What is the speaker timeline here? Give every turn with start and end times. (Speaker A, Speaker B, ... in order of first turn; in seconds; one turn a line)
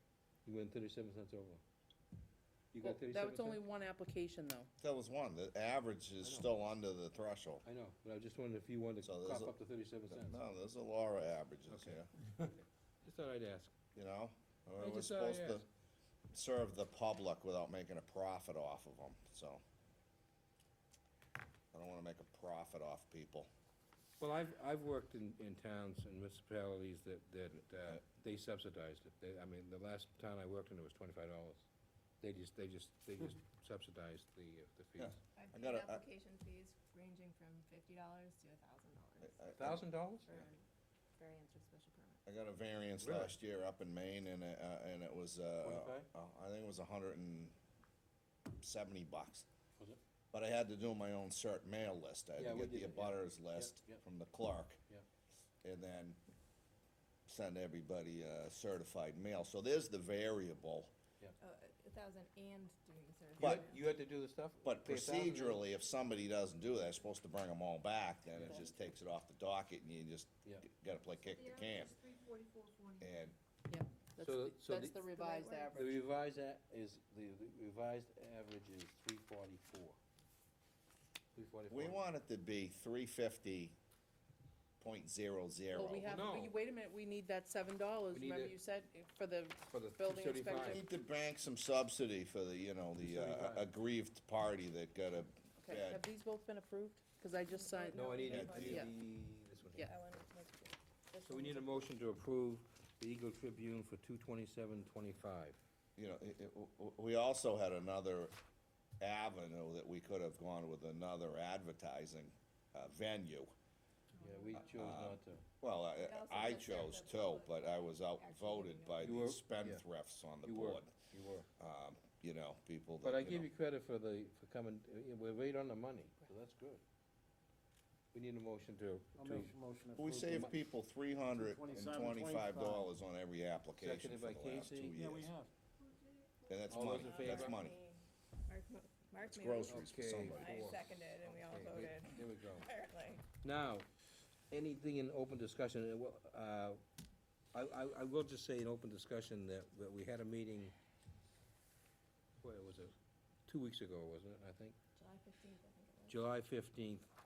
Speaker A: 0.5-1.6
Speaker A: 2.7-3.6
Speaker B: 2.8-4.7
Speaker C: 4.8-7.6
Speaker A: 6.2-6.5
Speaker A: 7.6-10.4
Speaker C: 9.0-9.5
Speaker C: 10.1-12.1
Speaker A: 11.7-13.7
Speaker C: 13.9-15.6
Speaker A: 14.8-15.6
Speaker C: 16.3-19.6
Speaker C: 21.7-23.5
Speaker A: 24.2-31.6
Speaker A: 32.2-35.2
Speaker C: 35.0-36.0
Speaker D: 35.4-40.6
Speaker C: 39.4-39.8
Speaker A: 39.5-40.5
Speaker D: 41.2-42.2
Speaker C: 42.2-47.5
Speaker A: 43.0-43.3
Speaker A: 45.6-46.1
Speaker C: 48.5-49.5
Speaker C: 50.3-54.8
Speaker A: 52.4-54.0
Speaker C: 55.6-56.2
Speaker C: 57.3-60.9
Speaker D: 61.4-63.8
Speaker A: 63.4-65.6
Speaker C: 63.4-63.6
Speaker C: 64.6-72.0
Speaker A: 68.3-68.6
Speaker C: 73.0-73.3
Speaker B: 73.7-76.0
Speaker A: 74.2-75.0
Speaker D: 75.1-75.9
Speaker A: 75.7-80.0
Speaker A: 81.3-82.0
Speaker C: 81.7-83.8
Speaker C: 84.8-86.3
Speaker B: 85.7-90.8
Speaker A: 85.8-86.5
Speaker A: 88.1-88.5
Speaker A: 89.7-90.8
Speaker C: 90.6-96.0
Speaker A: 93.0-93.7
Speaker B: 95.6-98.9
Speaker D: 97.5-98.9
Speaker A: 97.9-100.2
Speaker C: 98.3-98.9
Speaker D: 99.8-101.7
Speaker A: 101.2-105.6
Speaker C: 106.0-108.3
Speaker C: 109.0-113.5
Speaker A: 114.2-115.4
Speaker C: 114.6-120.9
Speaker D: 116.0-119.1
Speaker A: 119.0-119.8
Speaker A: 120.4-121.5
Speaker C: 121.6-123.5
Speaker A: 123.0-126.8
Speaker A: 128.1-129.5
Speaker E: 129.2-130.5
Speaker C: 130.0-135.3
Speaker E: 131.4-132.9
Speaker A: 133.8-135.0
Speaker E: 135.0-135.5
Speaker C: 136.4-137.8
Speaker A: 136.7-137.6
Speaker D: 137.0-143.2
Speaker C: 139.2-140.6
Speaker A: 139.7-142.7
Speaker A: 143.4-143.9
Speaker A: 144.5-146.8
Speaker A: 147.5-150.7
Speaker A: 152.4-152.9
Speaker A: 153.4-154.8
Speaker D: 154.9-156.3
Speaker A: 156.1-157.1